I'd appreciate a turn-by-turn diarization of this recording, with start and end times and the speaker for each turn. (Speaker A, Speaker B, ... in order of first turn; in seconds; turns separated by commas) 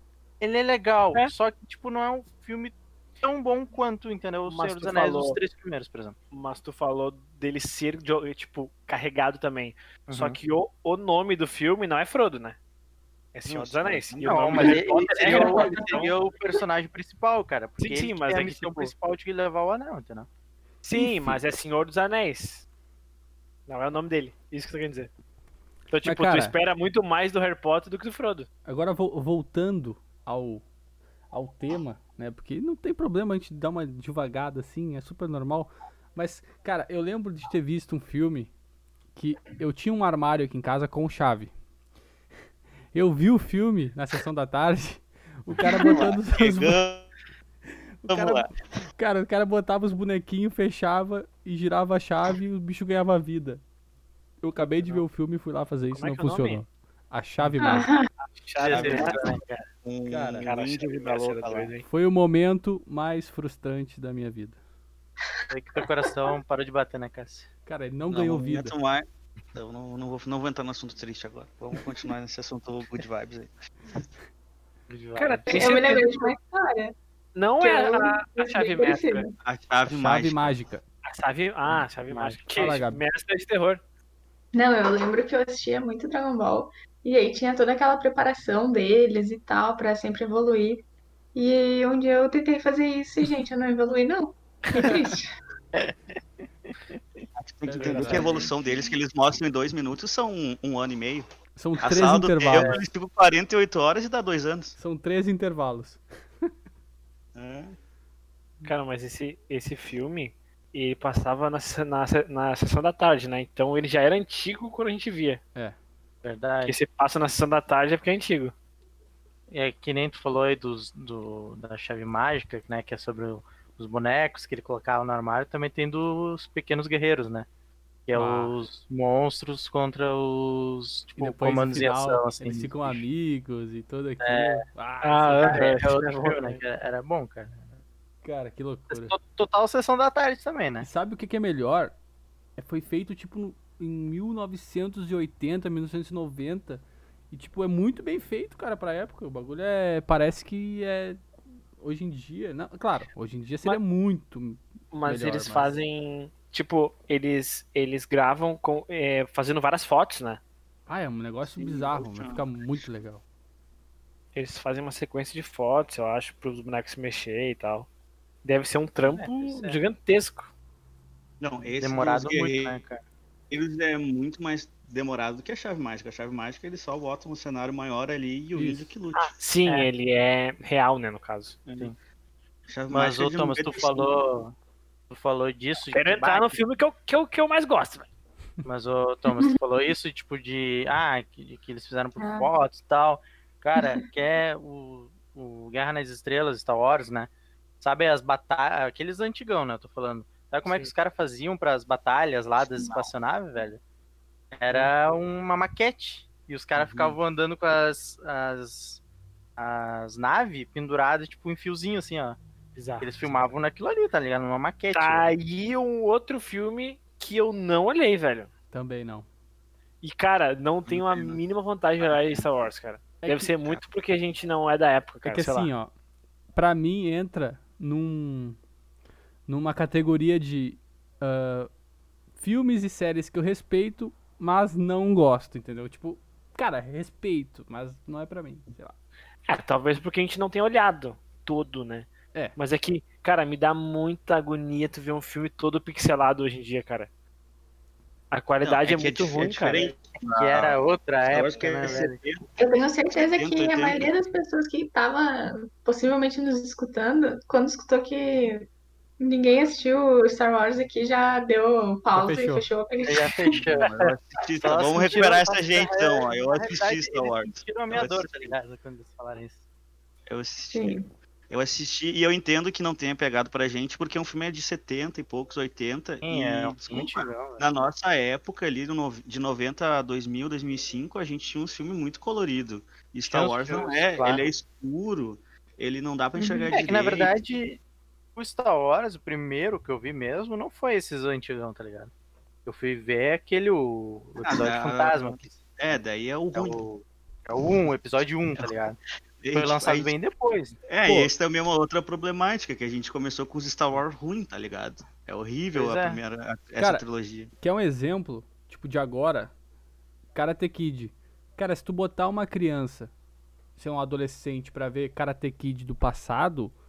Speaker A: 0.4-6.2, Speaker B: 4.5-5.4, Speaker B: 6.3-12.6, Speaker A: 10.1-10.4, Speaker B: 13.3-16.1, Speaker C: 13.5-14.9, Speaker A: 14.2-20.3, Speaker B: 17.8-18.9, Speaker B: 20.8-22.7, Speaker D: 20.9-21.4, Speaker B: 23.7-25.1, Speaker B: 25.9-28.5, Speaker D: 26.0-26.6, Speaker D: 28.7-30.6, Speaker D: 31.3-38.5, Speaker D: 39.1-41.5, Speaker D: 42.9-46.8, Speaker C: 45.6-47.1, Speaker D: 48.0-53.6, Speaker C: 48.1-48.5, Speaker D: 54.4-57.9, Speaker B: 54.7-55.0, Speaker B: 55.9-56.6, Speaker E: 57.6-58.1, Speaker B: 58.3-59.2, Speaker A: 58.6-59.6, Speaker C: 58.7-61.7, Speaker D: 60.1-60.5, Speaker B: 60.4-61.9, Speaker D: 61.9-64.6, Speaker E: 65.3-66.1, Speaker A: 65.5-67.5, Speaker D: 67.7-68.7, Speaker C: 68.1-73.5, Speaker A: 74.9-75.5, Speaker B: 75.2-76.3, Speaker E: 75.5-77.0, Speaker B: 77.3-79.3, Speaker E: 77.6-79.3, Speaker C: 79.4-80.6, Speaker D: 79.9-80.8, Speaker B: 81.0-83.8, Speaker A: 81.7-82.4, Speaker D: 82.5-83.0, Speaker E: 84.5-90.8, Speaker E: 91.3-95.3, Speaker A: 95.7-97.2, Speaker C: 97.4-101.3, Speaker D: 97.7-98.4, Speaker A: 97.8-98.5, Speaker D: 101.6-102.8, Speaker C: 101.8-104.8, Speaker A: 102.5-102.8, Speaker D: 104.8-106.5, Speaker C: 107.3-107.8, Speaker B: 108.7-115.4, Speaker A: 116.2-116.8, Speaker B: 116.7-118.5, Speaker A: 119.5-127.5, Speaker A: 128.1-133.0, Speaker D: 128.1-128.6, Speaker D: 131.2-135.8, Speaker A: 134.2-134.7, Speaker B: 135.0-136.6, Speaker A: 135.4-137.7, Speaker D: 138.2-139.2, Speaker A: 138.9-140.9, Speaker D: 140.8-141.9, Speaker D: 142.6-151.2, Speaker D: 151.8-155.7, Speaker B: 154.9-160.4, Speaker D: 160.9-163.2, Speaker C: 161.5-162.9, Speaker B: 164.3-167.9, Speaker B: 168.4-170.5, Speaker A: 169.0-169.8, Speaker C: 171.4-172.8, Speaker A: 171.8-173.0, Speaker C: 173.5-179.3, Speaker D: 178.5-178.9, Speaker B: 179.1-181.6, Speaker C: 181.7-181.9, Speaker C: 182.7-184.1, Speaker A: 182.9-184.6, Speaker A: 185.1-186.6, Speaker B: 185.9-188.1, Speaker A: 188.6-197.3, Speaker E: 192.2-192.5, Speaker A: 197.8-203.8, Speaker B: 200.6-200.9, Speaker A: 204.6-209.0, Speaker C: 206.8-207.2, Speaker A: 209.6-212.4, Speaker B: 212.8-213.1, Speaker A: 213.0-215.4, Speaker B: 214.9-218.5, Speaker D: 218.7-219.2, Speaker B: 220.0-225.7, Speaker C: 220.8-221.4, Speaker C: 222.0-222.6, Speaker D: 223.2-223.5, Speaker D: 225.2-225.9, Speaker D: 226.6-228.6, Speaker D: 229.5-231.7, Speaker D: 232.4-239.0, Speaker B: 239.5-247.1, Speaker B: 248.3-249.9, Speaker C: 248.6-252.4, Speaker A: 250.2-252.2, Speaker E: 252.6-258.6, Speaker C: 253.1-254.1, Speaker E: 259.2-263.5, Speaker D: 262.1-262.7, Speaker A: 263.0-269.6, Speaker C: 263.6-268.6, Speaker C: 270.3-287.3, Speaker E: 270.7-271.1, Speaker A: 276.2-277.7, Speaker A: 283.3-284.5, Speaker E: 286.4-286.7, Speaker A: 286.7-287.8, Speaker A: 288.4-292.1, Speaker A: 292.6-295.6, Speaker C: 294.4-296.8, Speaker A: 296.5-299.0, Speaker C: 299.4-300.1, Speaker A: 299.5-300.8, Speaker C: 300.9-307.5, Speaker D: 301.0-301.3, Speaker A: 305.8-306.2, Speaker D: 306.8-307.0, Speaker D: 307.6-309.5, Speaker D: 310.4-313.1, Speaker D: 313.8-316.7